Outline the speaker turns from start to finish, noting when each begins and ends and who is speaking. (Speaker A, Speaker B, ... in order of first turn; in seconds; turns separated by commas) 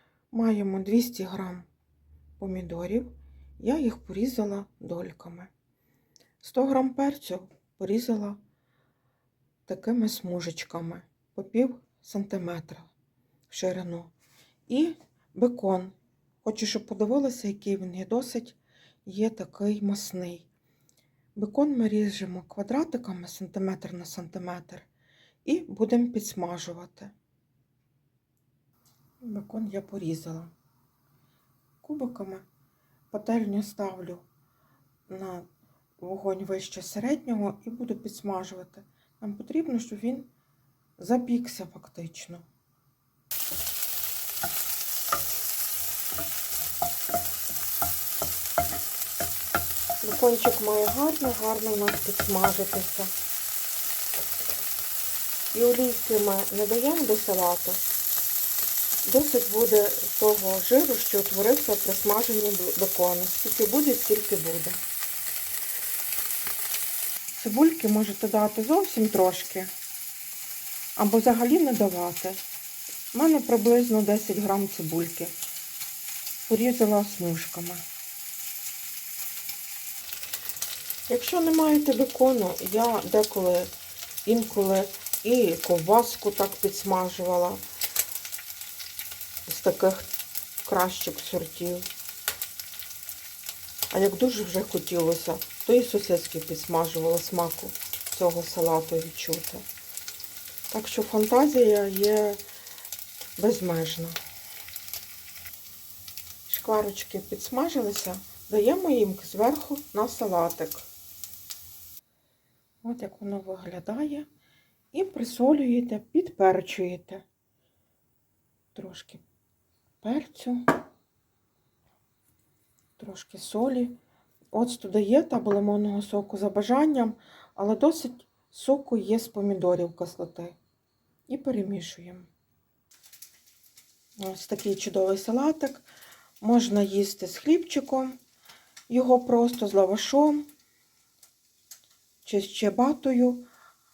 Speaker A: 0.3-1.6, Speaker A: 2.4-5.5, Speaker A: 6.4-8.4, Speaker A: 9.7-12.9, Speaker A: 13.5-14.1, Speaker A: 14.7-20.5, Speaker A: 21.4-24.9, Speaker A: 25.4-27.1, Speaker A: 29.2-30.5, Speaker A: 31.8-32.4, Speaker A: 33.1-34.2, Speaker A: 35.1-35.5, Speaker A: 36.0-40.3, Speaker A: 41.0-42.4, Speaker A: 50.0-53.1, Speaker A: 55.5-57.8, Speaker A: 59.0-64.8, Speaker A: 67.3-69.7, Speaker A: 71.0-72.4, Speaker A: 73.1-75.3, Speaker A: 76.5-77.8, Speaker A: 81.1-83.7, Speaker A: 84.2-87.6, Speaker A: 89.5-90.1, Speaker A: 90.6-91.9, Speaker A: 93.9-99.6, Speaker A: 100.7-102.4, Speaker A: 103.4-104.2, Speaker A: 106.5-110.9, Speaker A: 112.8-114.3, Speaker A: 114.9-117.2, Speaker A: 118.7-119.2, Speaker A: 120.0-120.6, Speaker A: 123.0-124.0, Speaker A: 124.5-130.6, Speaker A: 131.3-132.3, Speaker A: 134.2-135.8, Speaker A: 136.4-138.2, Speaker A: 138.9-140.4, Speaker A: 142.2-143.4